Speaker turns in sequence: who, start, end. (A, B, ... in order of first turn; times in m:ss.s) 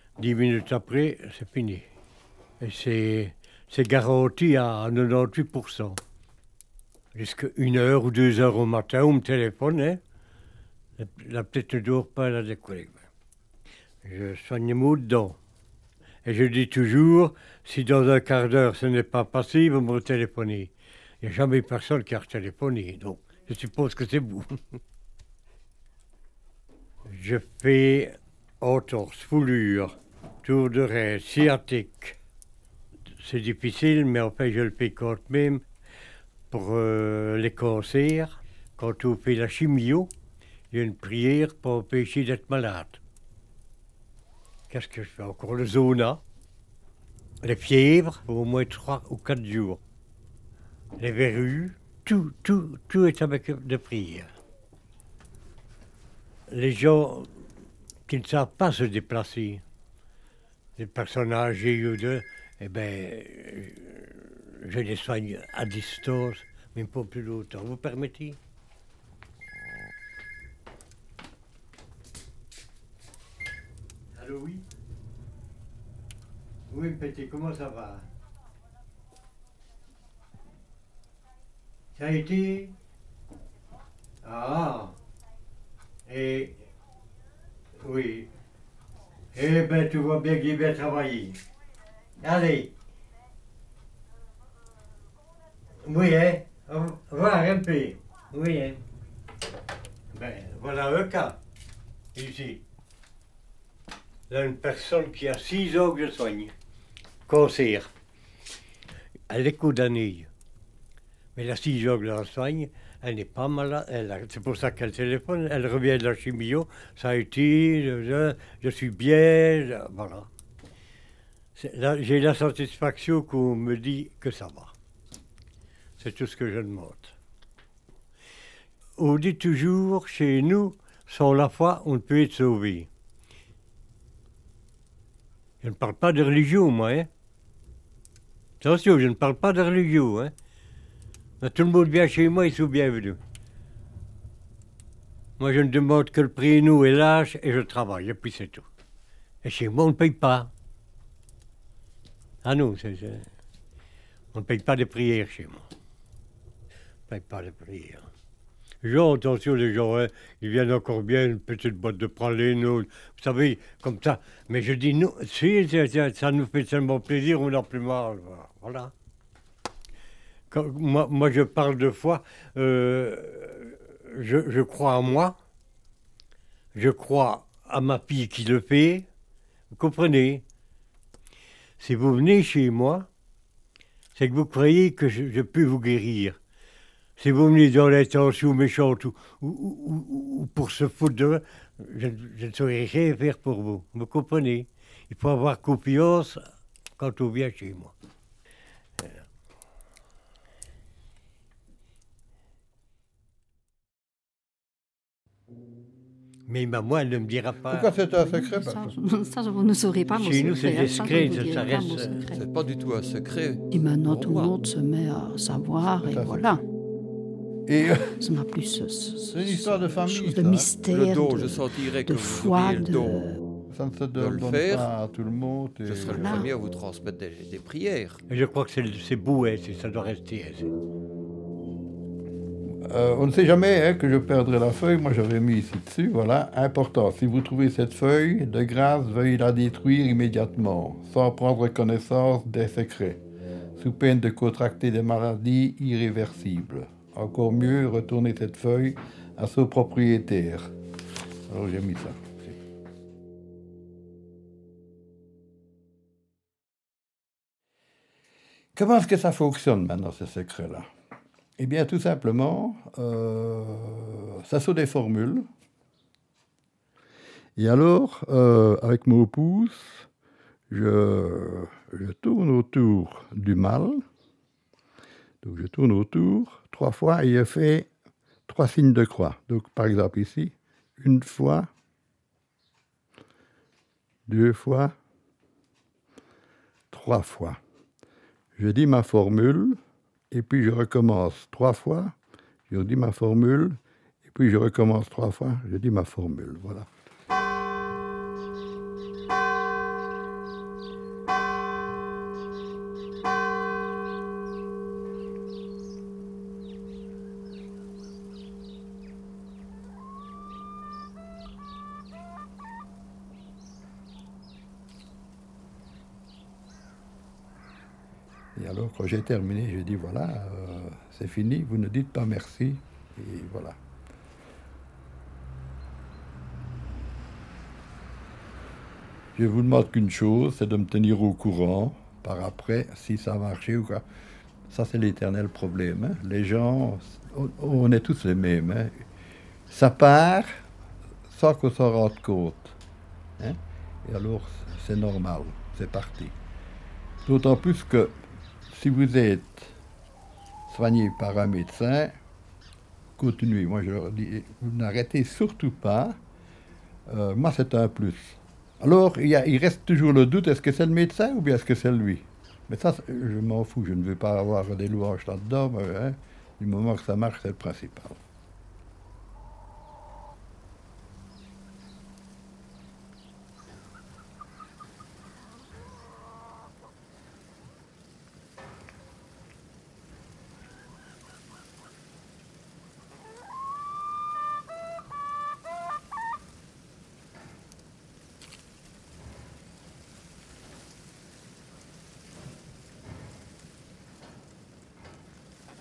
0:00.2-0:01.8 A
0:02.6-0:06.0 A
0:07.1-0:10.0 A
0:11.0-0:13.0 A
0:14.0-0:15.4 A
0:16.2-0:20.7 A
0:21.2-0:24.8 A
0:27.0-0:32.2 A
0:33.2-0:35.6 A
0:36.5-0:40.1 A
0:40.7-0:43.0 A
0:44.7-0:46.2 A
0:47.4-0:49.8 A
0:51.0-0:54.3 A
0:56.5-0:57.3 A
0:58.1-0:59.6 A
1:00.8-1:08.4 A
1:14.1-1:14.6 A
1:16.7-1:18.1 A
1:22.0-1:22.7 A
1:24.2-1:24.9 A
1:26.1-1:26.6 A
1:27.8-1:28.3 A
1:29.3-1:31.4 A
1:32.2-1:32.7 A
1:35.8-1:38.8 A
1:40.1-1:41.4 A
1:42.1-1:42.6 A
1:44.3-1:46.5 A
1:47.3-1:47.9 A
1:49.3-1:50.3 A
1:51.3-2:00.3 A
2:01.6-2:04.7 A
2:06.0-2:07.1 A
2:09.0-2:12.9 A
2:15.6-2:17.1 A
2:18.6-2:20.3 A
2:21.4-2:23.2 A
2:25.4-2:28.6 A
2:29.4-2:30.5 A
2:32.4-2:33.3 A
2:34.3-2:35.7 A
2:37.1-2:38.1 A
2:38.8-2:48.9 A
2:50.5-2:55.3 A
2:56.7-2:59.0 A
2:59.7-3:00.4 A
3:01.8-3:03.1 A
3:04.1-3:06.4 A
3:07.2-3:16.4 A
3:17.0-3:17.9 A
3:26.5-3:27.9 A
3:27.7-3:28.9 B
3:28.1-3:32.4 C
3:30.1-3:32.2 A
3:32.3-3:34.5 D
3:33.7-3:36.6 C
3:36.0-3:36.6 B
3:37.7-3:38.1 B
3:38.2-3:43.4 C
3:39.3-3:40.7 B
3:40.8-3:43.3 D
3:43.7-3:46.3 B
3:44.2-3:44.9 D
3:45.8-3:48.2 D
3:46.0-3:46.5 C
3:48.3-3:50.7 A
3:52.9-4:03.2 B
4:03.8-4:10.7 B
4:11.5-4:12.5 B
4:18.7-4:20.9 B
4:21.6-4:25.5 B
4:27.6-4:30.1 B
4:30.7-4:34.0 B
4:35.4-4:37.9 B
4:38.5-4:41.7 B
4:44.3-4:44.9 B
4:46.9-4:47.6 B
4:48.6-4:49.8 B
4:50.3-4:52.2 B
4:52.7-4:56.9 B
5:18.6-5:23.8 B
5:29.3-5:34.0 B
5:34.7-5:39.0 B
5:39.7-5:40.7 B
5:41.3-5:42.8 B
5:43.4-5:46.3 B
5:47.2-5:49.7 B
5:50.7-5:52.2 B
5:53.2-5:56.2 B
5:57.1-6:08.2 B